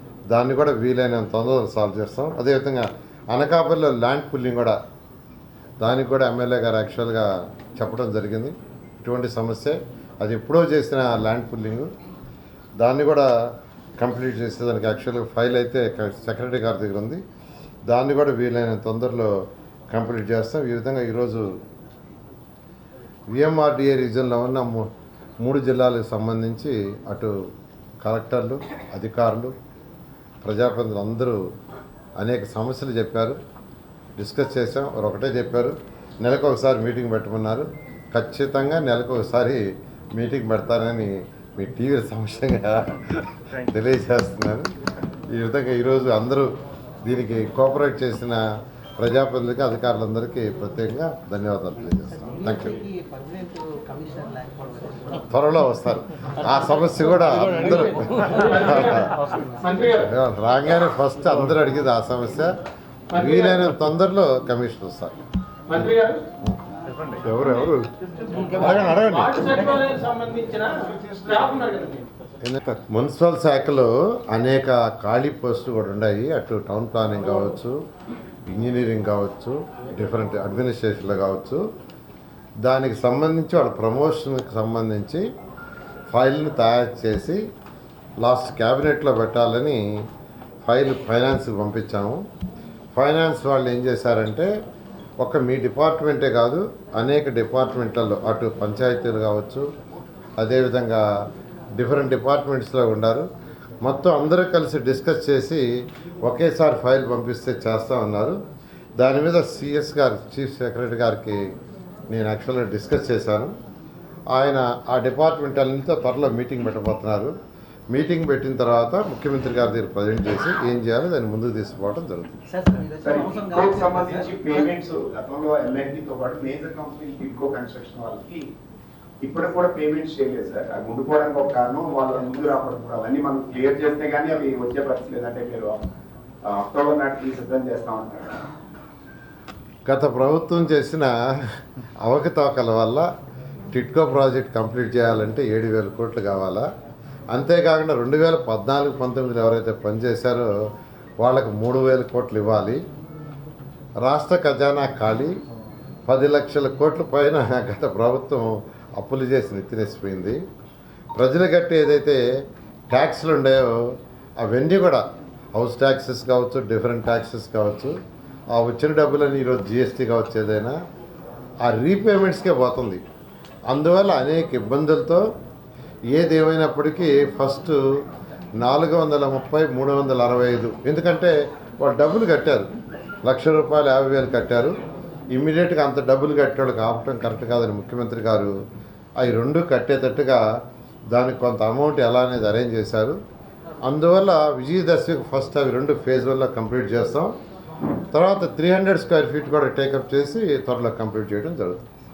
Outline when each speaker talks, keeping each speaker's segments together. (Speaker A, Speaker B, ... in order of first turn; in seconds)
Speaker A: 0.3-4.8, 5.8-11.9, 12.8-13.3, 14.0-17.2, 17.9-19.3, 19.9-21.5, 23.3-24.9, 25.4-27.3, 28.0-29.5, 30.4-31.4, 32.2-33.4, 34.2-39.6, 40.1-44.7, 45.3-46.5, 47.0-48.4, 49.0-52.8, 55.2-59.2, 60.0-62.5, 63.1-65.2, 67.2-67.8, 68.5-69.4, 72.4-77.8, 78.5-81.6, 82.6-85.2, 86.1-87.4, 88.2-89.8, 90.6-92.2, 93.0-94.5, 95.2-99.6, 100.4-101.0, 101.8-103.3, 103.8-105.7, 106.2-108.4, 109.0-111.4, 112.1-113.5, 114.3-117.3, 117.9-122.4, 139.9-141.2, 142.0-143.1, 143.7-146.6, 147.3-150.5, 151.2-152.8, 154.0-155.4, 156.1-160.4, 161.1-162.2, 162.9-165.0, 165.6-167.9, 168.5-170.8, 171.6-173.0, 173.7-175.2, 176.1-177.8, 178.6-182.7, 183.2-184.8, 185.3-188.5, 189.2-190.4, 191.1-193.2, 193.8-197.3, 198.1-201.8
Speaker B: 52.9-55.2, 122.5-124.7
Speaker C: 57.6-60.1, 63.1-63.7, 65.7-66.2, 68.4-72.1
Speaker D: 123.0-128.4, 129.2-135.8, 136.5-138.4